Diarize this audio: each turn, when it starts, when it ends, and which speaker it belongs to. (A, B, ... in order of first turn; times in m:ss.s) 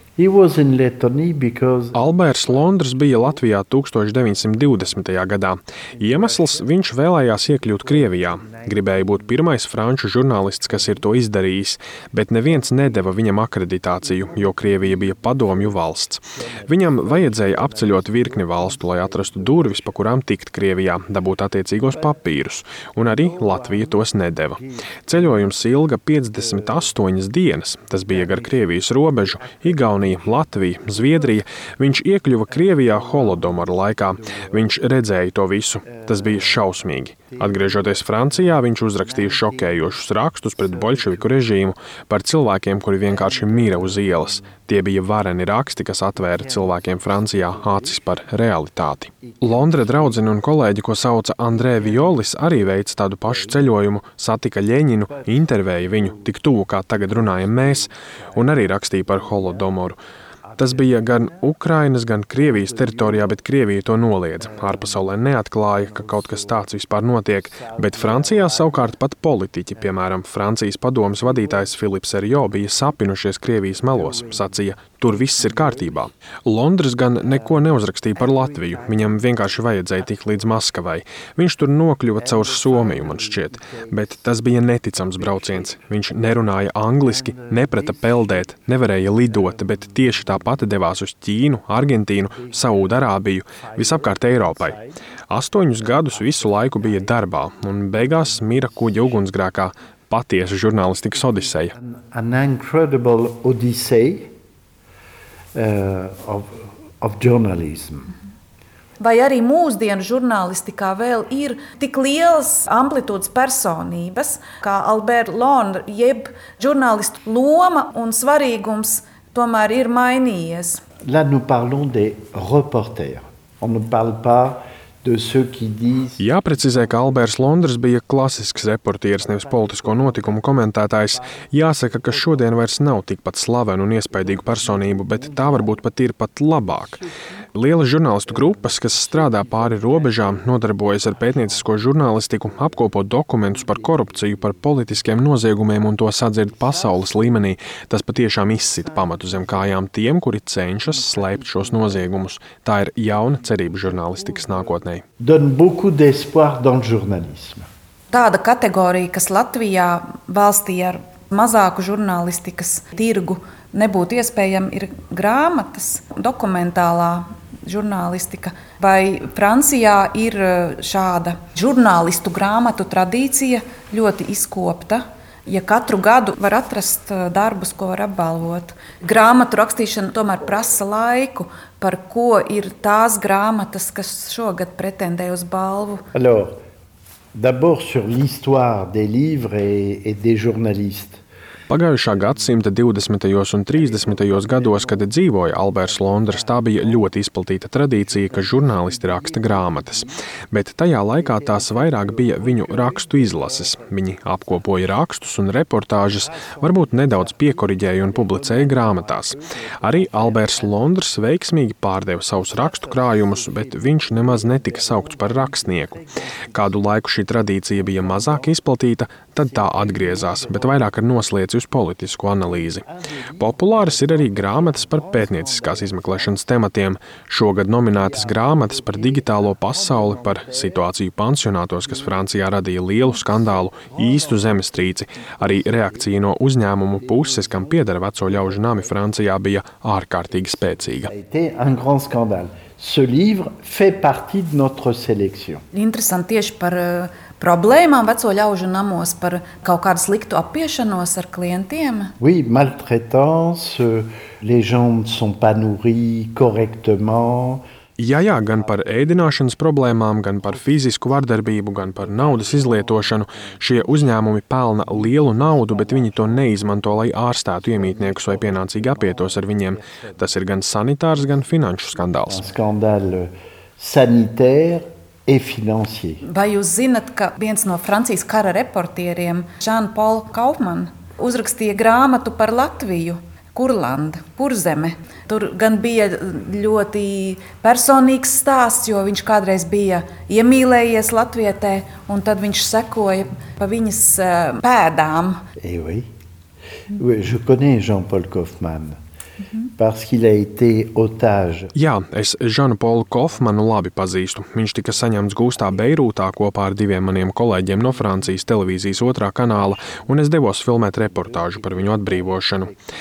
0:00.2-0:02.0 A
0:01.9-1:00.0 B
1:00.6-1:41.7 B
1:41.8-1:44.3 A
1:45.5-1:48.1 A
1:49.0-2:00.8 C
2:01.0-2:06.2 A
2:06.2-2:17.0 B
2:17.5-2:35.0 B
2:35.2-2:37.7 A
2:38.1-3:06.0 C
3:06.1-3:06.6 A
3:07.3-3:11.2 A
3:11.7-3:42.8 B
3:35.1-3:35.8 A
3:43.4-4:01.1 B
3:43.4-3:45.0 A
4:01.1-4:05.6 A
4:05.7-4:12.1 C
4:12.2-4:17.6 A
4:18.0-4:32.4 B
4:32.2-4:36.2 A
4:36.2-4:55.4 C
4:55.6-4:56.1 A
4:56.9-4:59.0 A
4:59.8-5:01.7 A
5:01.8-5:12.7 B